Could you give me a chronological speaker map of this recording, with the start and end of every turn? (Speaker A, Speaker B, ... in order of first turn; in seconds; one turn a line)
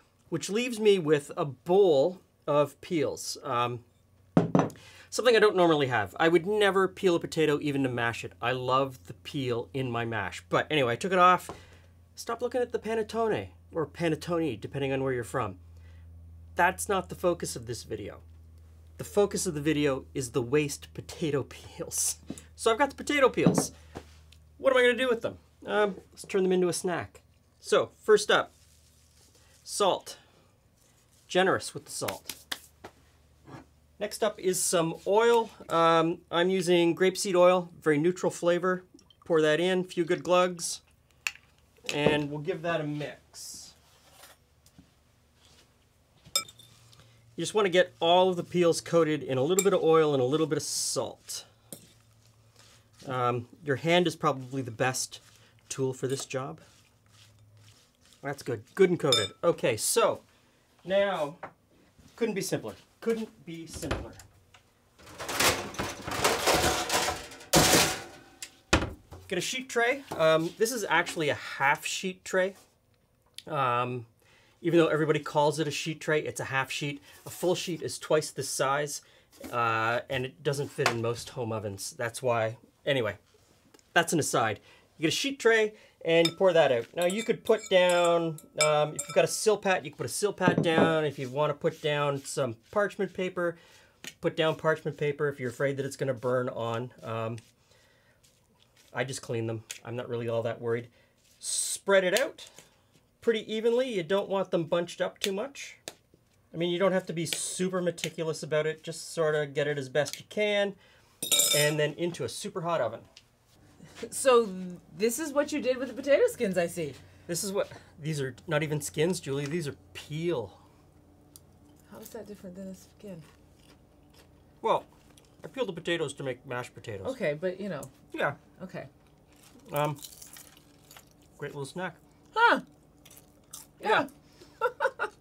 Speaker A: 0.3-3.8
Speaker A: 5.1-11.5
Speaker A: 12.2-15.6
Speaker A: 16.6-18.2
Speaker A: 19.0-23.7
Speaker A: 24.6-28.5
Speaker A: 29.6-30.2
Speaker A: 31.3-32.4
Speaker A: 34.0-40.8
Speaker A: 41.9-43.7
Speaker A: 47.4-51.5
Speaker A: 53.0-56.6
Speaker A: 58.2-60.2
Speaker A: 60.8-61.4
Speaker A: 62.1-64.2
Speaker A: 69.3-72.6
Speaker A: 73.5-74.1
Speaker A: 74.6-83.2
Speaker A: 83.9-93.6
Speaker A: 94.2-97.4
Speaker A: 98.9-102.5
Speaker A: 103.2-105.8
Speaker A: 106.5-110.8
Speaker A: 111.5-113.1
Speaker B: 114.0-117.0
Speaker A: 117.3-120.6
Speaker B: 121.9-123.2
Speaker A: 124.6-124.9
Speaker A: 125.4-127.2
Speaker B: 127.0-128.9
Speaker A: 128.1-128.4
Speaker A: 129.7-130.0
Speaker A: 131.4-132.0
Speaker B: 132.3-132.6
Speaker B: 133.8-134.1
Speaker B: 134.6-134.9